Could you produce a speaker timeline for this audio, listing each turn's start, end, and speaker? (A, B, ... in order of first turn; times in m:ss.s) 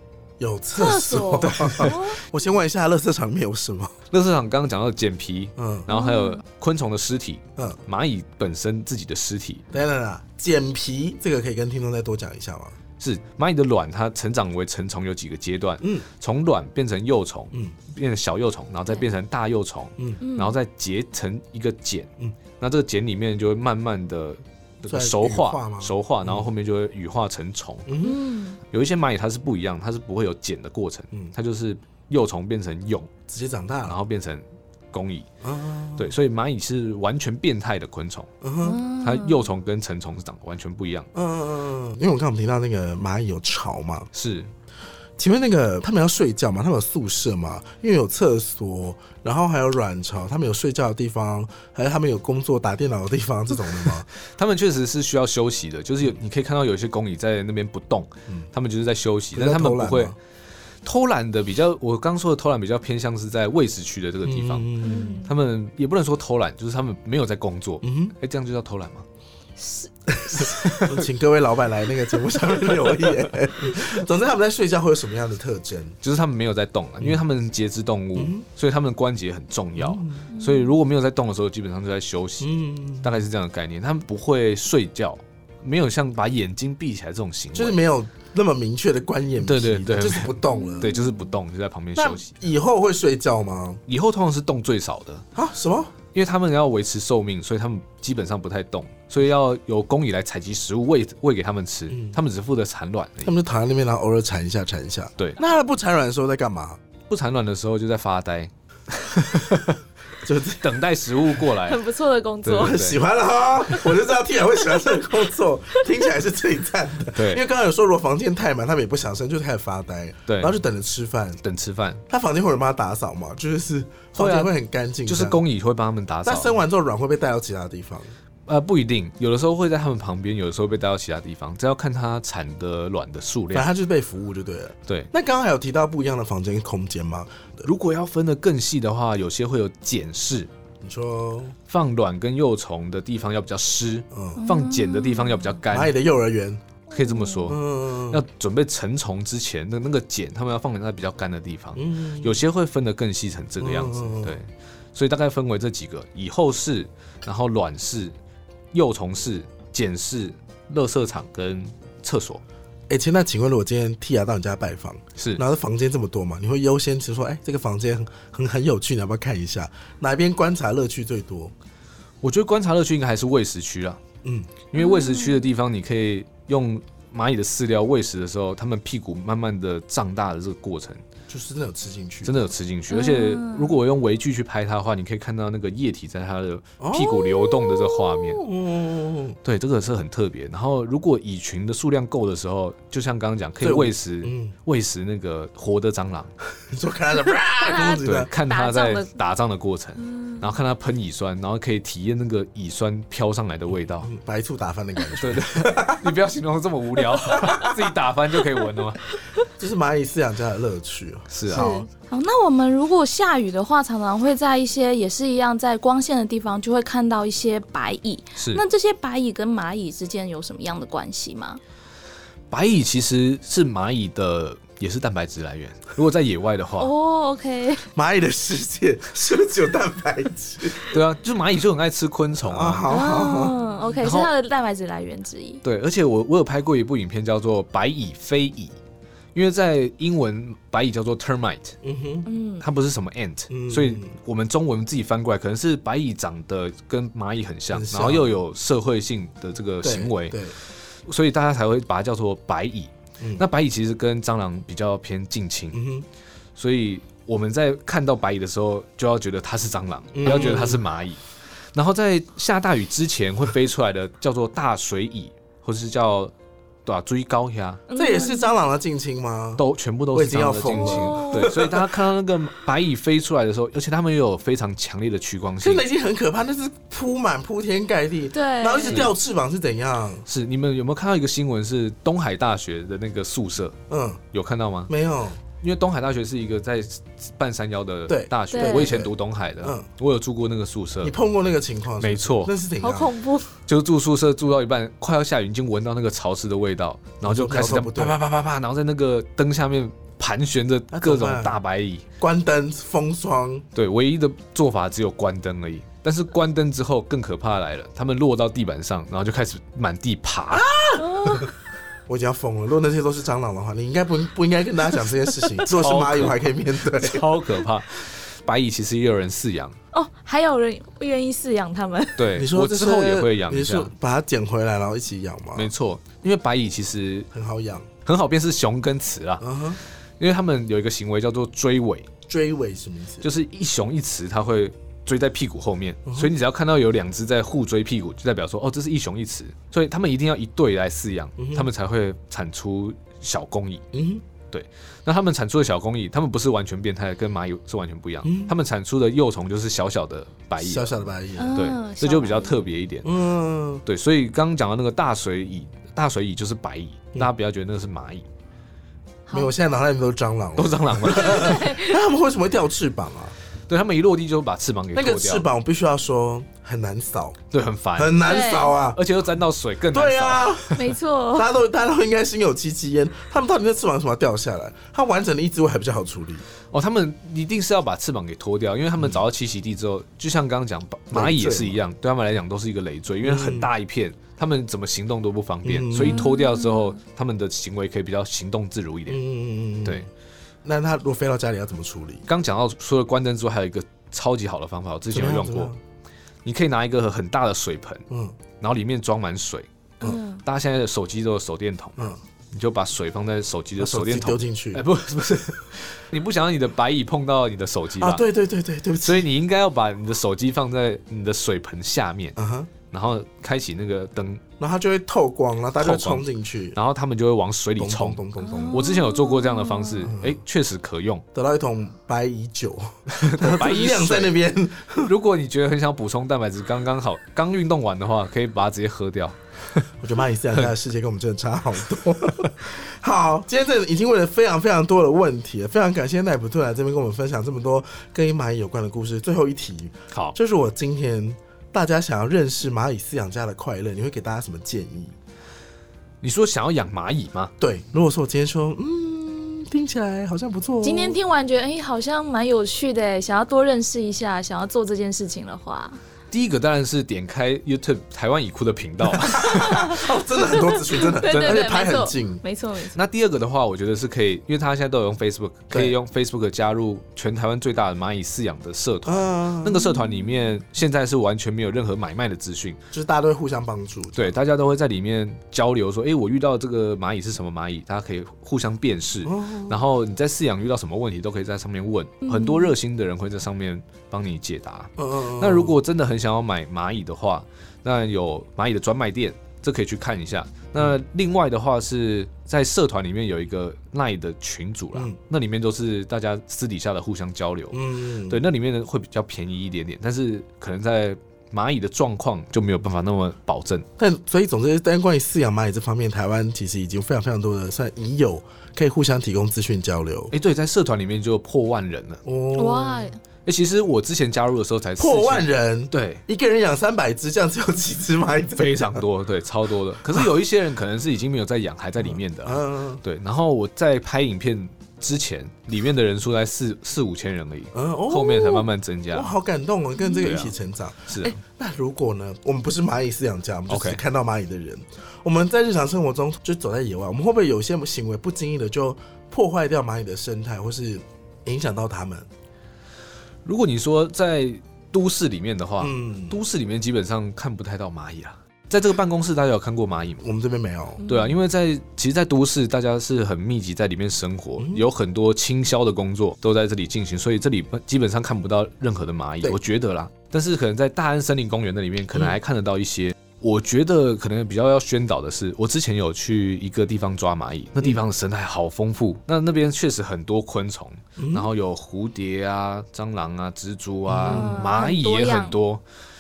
0:00.4-0:04.0 A
0:00.8-0:02.2 B
0:01.6-0:01.9 C
0:04.1-0:09.6 C
0:05.6-0:05.9 A
0:05.9-0:06.4 B
0:09.7-0:12.8 A
0:13.0-0:27.9 C
0:15.8-0:16.1 A
0:20.2-0:20.6 B
0:24.9-0:26.5 A
0:27.9-0:28.3 A
0:28.0-0:28.6 B
0:28.7-0:33.1 C
0:33.3-0:34.0 A
0:33.9-0:35.3 C
0:35.4-0:36.1 A
0:36.0-0:38.3 C
0:38.4-0:38.8 A
0:38.6-0:39.5 B
0:39.0-0:41.1 C
0:41.1-0:44.1 A
0:44.1-0:44.5 C
0:45.2-0:54.1 A
0:54.2-1:00.2 C
0:59.3-1:00.2 A
1:00.8-1:09.1 C
1:04.2-1:05.2 A
1:04.8-1:05.3 B
1:07.8-1:08.2 A
1:09.6-1:10.5 B
1:10.1-1:16.0 A
1:10.3-1:11.0 C
1:16.0-1:27.8 C
1:18.2-1:18.4 A
1:19.8-1:20.3 A
1:20.3-1:20.8 B
1:22.4-1:23.2 A
1:27.6-1:30.9 A
1:29.4-1:32.4 C
1:30.5-1:31.3 B
1:32.0-1:33.8 A
1:33.9-1:35.2 C
1:35.4-1:35.9 A
1:36.1-1:43.3 C
1:41.9-1:42.2 A
1:43.2-1:46.8 A
1:47.1-1:49.8 C
1:50.2-1:50.8 A
1:50.5-1:51.8 C
1:51.6-1:52.9 B
1:52.4-1:53.0 C
1:52.5-2:01.4 A
1:57.1-1:57.4 C
2:00.3-2:00.6 C
2:01.4-2:02.0 C
2:02.1-2:05.4 A
2:04.2-2:04.5 C
2:05.0-2:06.6 C
2:06.2-2:08.1 A
2:08.5-2:13.7 C
2:13.5-2:17.7 A
2:17.6-2:20.5 C
2:20.8-2:21.6 A
2:21.7-2:25.9 C
2:24.1-2:24.4 A
2:24.4-2:25.6 B
2:25.7-2:26.6 A
2:26.9-2:38.2 C
2:26.9-2:27.5 B
2:27.5-2:28.2 A
2:31.8-2:32.4 A
2:33.6-2:34.4 A
2:38.7-2:42.4 C
2:42.9-2:51.5 A
2:45.2-2:45.4 C
2:52.2-2:54.0 C
2:54.2-2:54.5 A
2:54.7-3:01.0 C
2:54.8-2:55.5 B
3:01.3-3:02.4 A
3:02.2-3:08.4 C
3:02.9-3:03.8 B
3:06.8-3:09.4 A
3:09.4-3:16.3 C
3:13.6-3:14.6 A
3:16.7-3:18.3 A
3:17.6-3:19.2 B
3:18.0-3:24.1 C
3:20.0-3:20.5 B
3:24.0-3:26.1 A
3:25.2-3:29.0 C
3:27.3-3:27.7 A
3:29.6-3:31.9 A
3:31.3-3:31.7 C
3:31.5-3:41.6 B
3:38.4-3:38.6 C
3:42.5-3:46.9 C
3:46.8-3:47.9 B
3:48.0-3:50.8 A
3:50.8-3:52.9 C
3:52.5-3:53.6 A
3:52.9-3:55.6 B
3:54.0-3:54.3 C
3:55.6-3:58.8 C
3:59.4-4:01.8 C
4:01.8-4:02.3 A
4:02.3-4:02.6 B
4:02.6-4:10.4 C
4:03.5-4:04.1 A
4:07.7-4:08.4 A
4:09.8-4:10.6 A
4:11.0-4:15.8 C
4:15.7-4:16.1 A
4:16.6-4:21.2 C
4:20.1-4:20.8 A
4:21.7-4:26.3 C
4:26.9-4:27.8 C
4:27.9-4:28.5 B
4:28.0-4:32.0 A
4:29.6-4:35.8 C
4:30.8-4:31.6 B
4:35.6-4:40.3 A
4:38.3-4:39.1 B
4:40.3-4:43.8 C
4:43.9-4:44.2 A
4:44.3-4:44.9 C
4:44.9-4:45.4 A
4:45.6-4:51.1 C
4:48.1-4:49.9 A
4:48.5-4:49.0 B
4:51.0-4:53.1 A
4:52.0-4:52.5 C
4:52.8-4:53.5 B
4:53.7-5:02.0 C
4:57.2-4:58.2 A
5:00.9-5:01.5 A
5:02.2-5:03.7 A
5:03.7-5:10.7 C
5:10.5-5:11.5 A
5:11.0-5:11.5 B
5:12.1-5:17.4 A
5:15.7-5:19.8 C
5:19.9-5:22.3 B
5:22.2-5:23.9 C
5:22.3-5:25.7 A
5:25.6-5:27.3 C
5:27.3-5:27.9 A
5:28.0-5:29.5 C
5:29.4-5:29.8 A
5:30.2-5:32.1 C
5:32.3-5:33.3 A
5:33.2-5:43.9 C
5:36.1-5:36.3 A
5:41.4-5:41.7 A
5:43.9-5:44.2 A
5:44.5-5:53.1 C
5:48.2-5:48.6 A
5:50.6-5:51.6 A
5:51.4-5:52.6 B
5:53.0-5:53.8 A
5:53.8-5:58.3 C
5:59.3-5:59.5 B
5:59.3-6:03.4 A
6:00.6-6:01.7 C
6:01.2-6:02.0 B
6:03.7-6:05.5 C
6:04.9-6:07.4 A
6:07.5-6:08.3 C
6:08.0-6:09.0 A
6:08.2-6:08.8 B
6:08.9-6:10.8 C
6:09.9-6:10.8 A
6:10.7-6:11.5 B
6:11.3-6:16.4 A
6:16.7-6:29.2 C
6:21.1-6:21.8 A
6:23.2-6:23.7 A
6:25.6-6:26.3 A
6:26.0-6:27.0 B
6:29.1-6:30.1 A
6:30.6-6:32.3 A
6:32.3-6:35.7 C
6:35.1-6:35.8 A
6:36.4-6:38.0 C
6:38.1-6:38.4 A
6:38.6-6:42.0 C
6:40.0-6:40.4 B
6:42.5-6:48.2 C
6:43.8-6:44.8 A
6:48.0-6:49.3 A
6:49.0-6:52.4 C
6:52.4-6:52.7 A
6:52.9-6:54.4 C
6:54.6-6:56.8 A
6:55.8-7:01.2 C
6:57.8-6:58.8 A
6:58.5-6:59.9 B
7:00.1-7:00.4 A
7:01.3-7:05.1 A
7:03.1-7:04.4 C
7:05.0-7:09.8 C
7:10.0-7:25.2 A
7:20.1-7:20.4 C
7:26.2-7:27.5 C
7:27.6-7:31.2 A
7:30.8-7:36.0 B
7:36.3-7:40.0 C
7:39.1-7:42.4 A
7:39.4-7:43.0 B
7:41.2-7:41.7 C
7:43.0-7:52.8 C
7:49.1-7:50.0 A
7:52.9-7:54.3 A
7:54.2-8:23.9 C
7:59.2-7:59.8 A
8:02.2-8:02.7 B
8:05.0-8:05.8 A
8:17.7-8:18.4 A
8:24.0-8:30.3 A
8:30.3-8:32.2 C
8:32.2-8:33.1 A
8:32.6-8:33.2 B
8:33.4-8:36.2 C
8:35.0-8:39.0 A
8:38.6-8:49.3 C
8:42.0-8:43.0 A
8:47.7-9:02.3 A
8:50.2-8:50.5 C
8:51.1-8:51.4 C
8:53.7-8:54.0 C
9:03.4-9:10.2 C
9:05.8-9:06.4 A
9:10.2-9:11.0 A
9:11.0-9:11.4 B
9:11.0-9:35.8 C
9:31.2-9:31.5 A
9:34.1-9:34.6 A
9:34.3-9:35.6 B